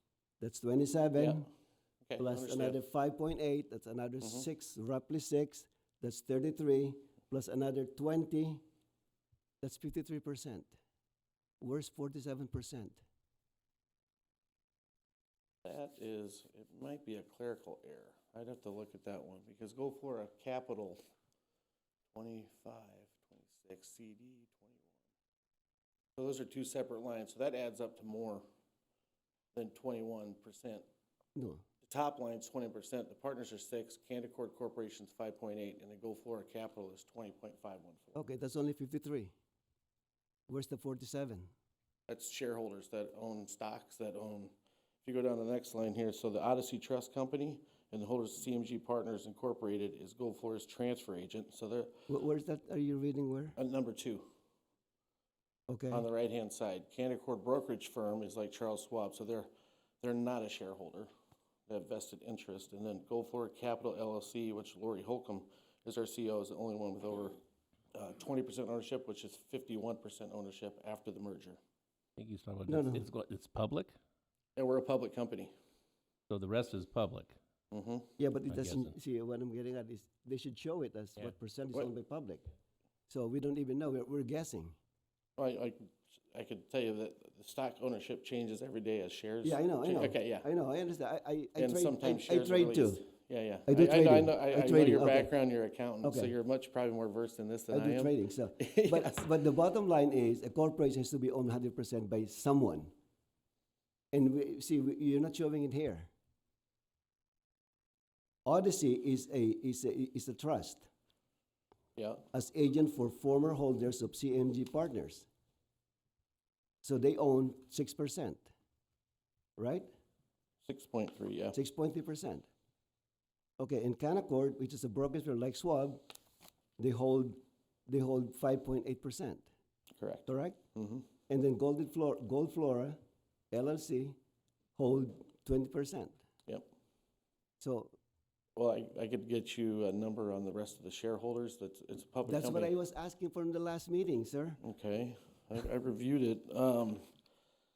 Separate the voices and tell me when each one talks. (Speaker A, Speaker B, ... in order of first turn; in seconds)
Speaker A: 0.4-1.5, 2.2-8.6, 9.6-10.7, 11.6-13.0, 31.4-31.6, 38.1-39.3, 40.5-41.5, 52.1-53.6, 55.7-56.1, 72.7-73.0, 78.2-82.4, 83.1-84.8, 89.4-93.0, 93.7-95.3, 96.0-96.3, 97.7-102.9, 104.1-106.1, 108.5-110.9, 112.3-115.3, 116.8-118.5, 119.6-119.9, 121.5-122.5, 123.6-126.0, 126.8-129.5, 130.3-130.6, 131.3-133.0, 133.5-134.2, 134.8-136.2, 137.6-138.0, 142.2-144.6
Speaker B: 2.1-2.7, 15.7-21.0, 22.1-24.7, 26.2-28.5, 29.6-30.9, 31.9-38.1, 42.1-44.5, 45.0-51.9, 53.6-54.3, 55.9-59.5, 60.0-61.1, 61.7-67.4, 67.9-71.6, 74.6-75.5, 77.7-78.1, 85.4-90.5, 91.6-98.1, 98.7-99.2, 112.0-112.2, 120.7-121.6, 130.0-130.2, 130.8-131.0, 138.6-142.7, 144.6-147.1
Speaker C: 72.2-74.0, 76.3-77.4, 78.5-78.9